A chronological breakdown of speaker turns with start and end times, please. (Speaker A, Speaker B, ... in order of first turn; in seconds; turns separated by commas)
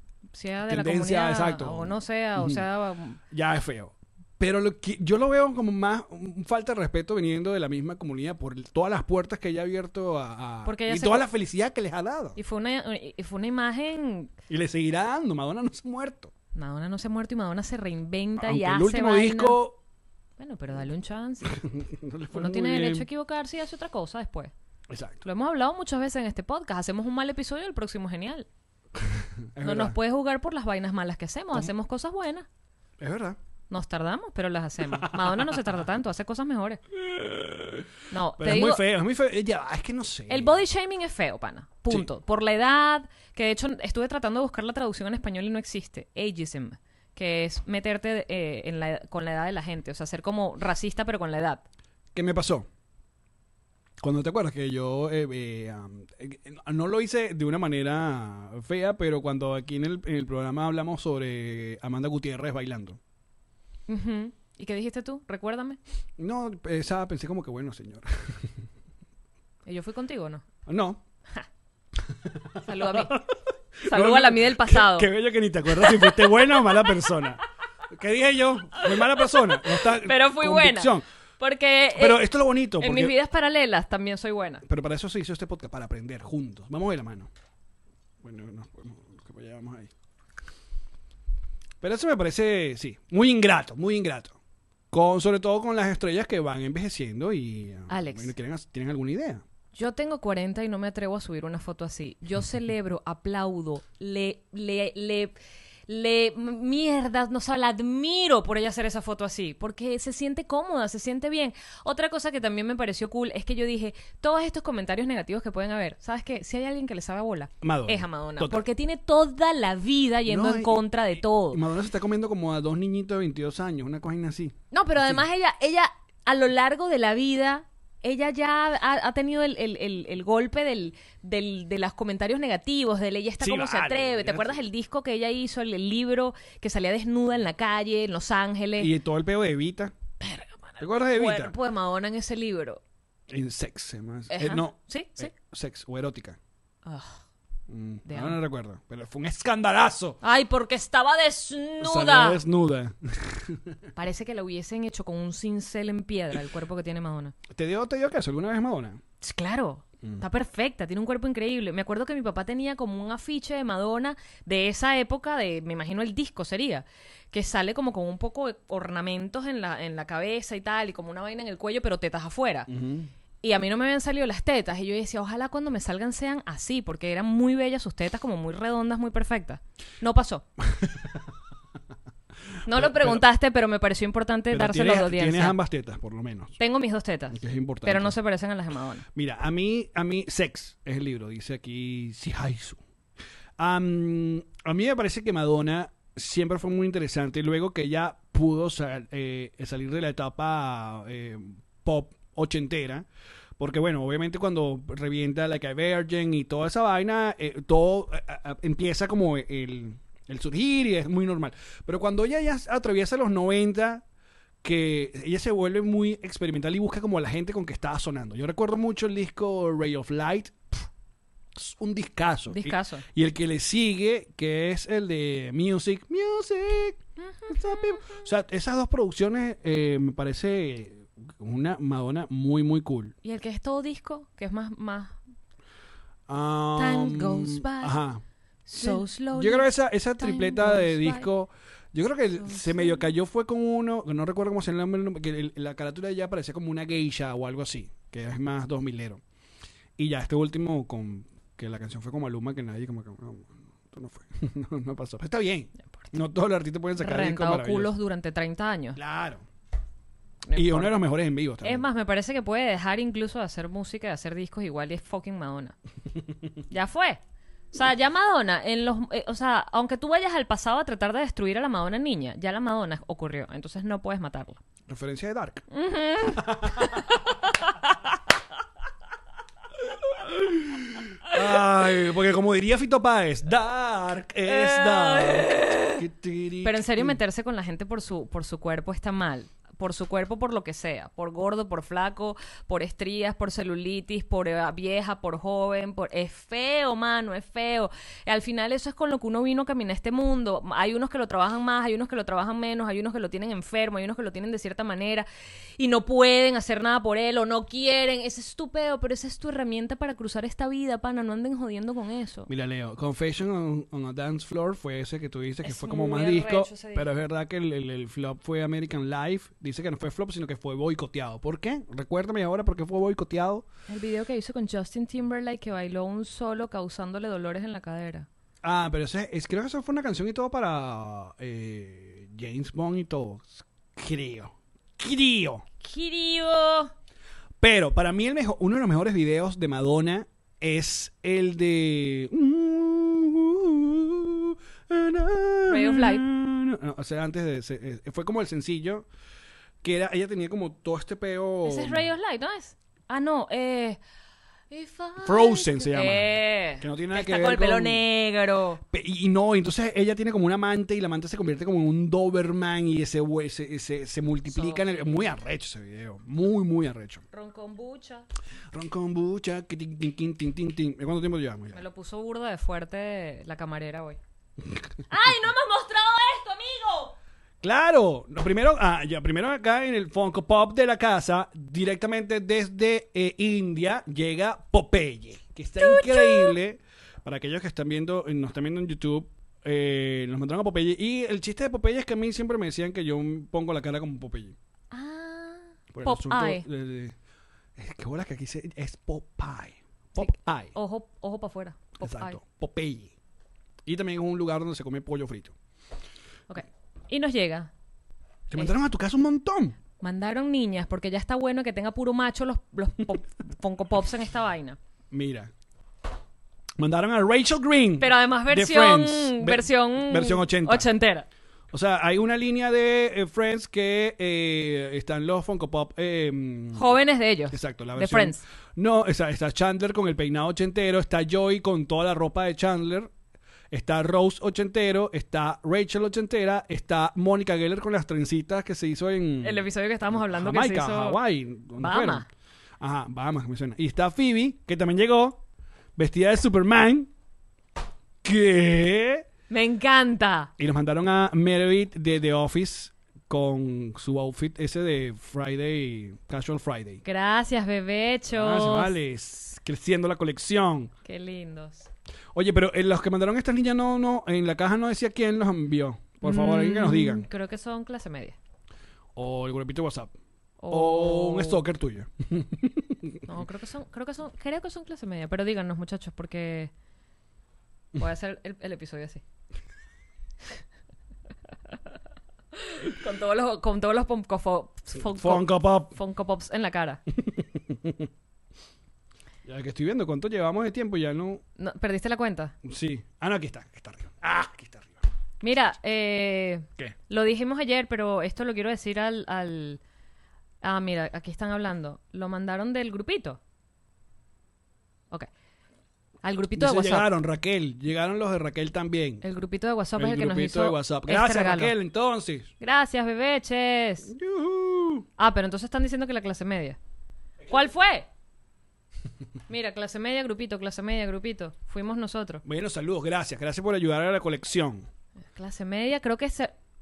Speaker A: 0.3-3.2, Speaker B: 0.7-2.6, Speaker B: 3.3-12.4, Speaker A: 10.6-11.2, Speaker A: 12.4-14.3, Speaker B: 14.5-16.3, Speaker A: 16.5-19.6, Speaker B: 18.4-19.8, Speaker A: 20.4-21.6, Speaker B: 21.4-23.1, Speaker A: 22.3-24.5, Speaker B: 24.9-25.2, Speaker A: 25.2-28.5, Speaker B: 29.1-30.0, Speaker A: 29.6-32.5, Speaker B: 33.0-33.4, Speaker A: 33.7-36.8, Speaker B: 34.9-35.8, Speaker B: 37.0-37.9, Speaker A: 38.1-38.8, Speaker B: 38.4-40.6, Speaker A: 40.3-51.6, Speaker B: 52.1-52.7, Speaker B: 54.0-63.0, Speaker A: 63.9-65.8, Speaker B: 66.2-68.6, Speaker A: 69.7-70.4, Speaker B: 70.7-71.0, Speaker B: 72.1-81.0, Speaker A: 72.6-73.2, Speaker A: 73.8-75.1, Speaker A: 75.7-76.9, Speaker A: 78.8-82.2, Speaker B: 81.9-83.2, Speaker A: 82.8-84.6, Speaker B: 84.7-87.3, Speaker B: 88.2-89.9, Speaker B: 91.8-94.3, Speaker B: 94.9-99.4, Speaker A: 97.9-98.3, Speaker A: 99.7-105.4, Speaker A: 105.9-121.6, Speaker B: 117.6-118.7, Speaker B: 120.3-125.2, Speaker A: 124.7-138.9, Speaker B: 133.4-134.6, Speaker B: 138.8-139.9, Speaker A: 140.2-142.8, Speaker B: 140.8-141.6, Speaker B: 143.3-146.4, Speaker A: 144.3-145.3, Speaker A: 146.8-147.2, Speaker B: 147.7-150.2, Speaker A: 148.1-148.4, Speaker A: 150.2-152.4, Speaker B: 151.8-153.8, Speaker A: 154.0-157.3, Speaker B: 157.5-159.0, Speaker A: 159.2-172.7, Speaker B: 172.7-173.1, Speaker A: 173.4-180.4, Speaker B: 180.6-181.3, Speaker A: 182.7-185.6, Speaker B: 182.7-183.2, Speaker B: 184.5-186.6, Speaker A: 186.6-189.1, Speaker B: 187.3-188.2, Speaker B: 189.2-192.8, Speaker B: 193.6-203.1, Speaker B: 203.6-214.0, Speaker B: 214.6-220.9, Speaker B: 221.6-233.1, Speaker A: 222.5-223.1, Speaker A: 227.2-228.2, Speaker A: 233.2-235.2, Speaker B: 236.3-238.2, Speaker A: 236.8-238.0, Speaker A: 238.7-241.3, Speaker B: 238.8-249.2, Speaker A: 242.4-243.1, Speaker B: 250.0-257.9, Speaker A: 257.0-259.0, Speaker B: 259.0-259.4, Speaker A: 260.4-260.9, Speaker B: 260.5-261.9, Speaker A: 261.6-265.7, Speaker A: 266.7-267.2, Speaker A: 267.7-274.6, Speaker B: 274.9-275.6, Speaker A: 275.7-277.9, Speaker B: 276.4-277.0, Speaker B: 280.0-287.2, Speaker A: 284.4-286.0, Speaker A: 286.6-305.3, Speaker A: 305.8-312.5, Speaker B: 312.5-323.7, Speaker A: 315.6-317.1, Speaker A: 323.9-328.3, Speaker B: 328.6-335.6, Speaker A: 335.8-336.9, Speaker B: 337.6-349.1, Speaker A: 345.7-346.2, Speaker B: 349.8-352.1, Speaker A: 351.6-354.0, Speaker A: 354.7-358.8, Speaker B: 355.2-358.0, Speaker B: 358.9-367.2, Speaker A: 364.5-365.1, Speaker A: 367.3-368.2, Speaker B: 368.7-371.8, Speaker A: 371.7-374.2, Speaker A: 375.1-377.1, Speaker B: 377.6-394.6, Speaker A: 385.8-386.6, Speaker A: 394.9-396.6, Speaker B: 395.9-397.1, Speaker B: 397.8-400.7, Speaker A: 400.2-402.4, Speaker B: 402.0-403.1, Speaker B: 403.9-405.6, Speaker A: 406.5-407.7, Speaker B: 408.5-409.8, Speaker A: 410.0-414.8, Speaker B: 415.1-415.5, Speaker B: 416.8-420.9, Speaker A: 418.0-421.3, Speaker B: 421.7-426.9, Speaker A: 426.7-428.4, Speaker B: 427.5-433.1, Speaker B: 433.7-442.3, Speaker A: 439.4-441.2, Speaker A: 441.8-442.3, Speaker B: 442.8-445.4, Speaker B: 446.0-447.1, Speaker B: 448.2-449.3, Speaker A: 449.5-450.5, Speaker B: 450.6-457.0, Speaker A: 457.0-459.0, Speaker B: 458.3-460.9, Speaker A: 461.1-461.9, Speaker B: 462.3-467.3, Speaker A: 466.2-468.4, Speaker B: 469.2-470.1, Speaker A: 470.6-471.6, Speaker B: 470.7-473.2, Speaker A: 473.3-476.7, Speaker A: 478.0-479.2, Speaker A: 482.5-487.0, Speaker B: 485.0-485.9, Speaker B: 487.1-488.1, Speaker B: 489.4-491.4, Speaker A: 491.6-492.6, Speaker B: 492.6-495.0, Speaker A: 495.4-499.8, Speaker A: 500.6-503.4, Speaker A: 506.2-507.1, Speaker B: 506.6-509.2, Speaker A: 509.2-511.7, Speaker B: 510.0-512.5, Speaker A: 512.6-514.1, Speaker B: 514.1-515.1, Speaker A: 515.2-516.8, Speaker A: 517.5-518.1, Speaker A: 519.5-522.4, Speaker B: 522.4-524.9, Speaker A: 525.4-526.5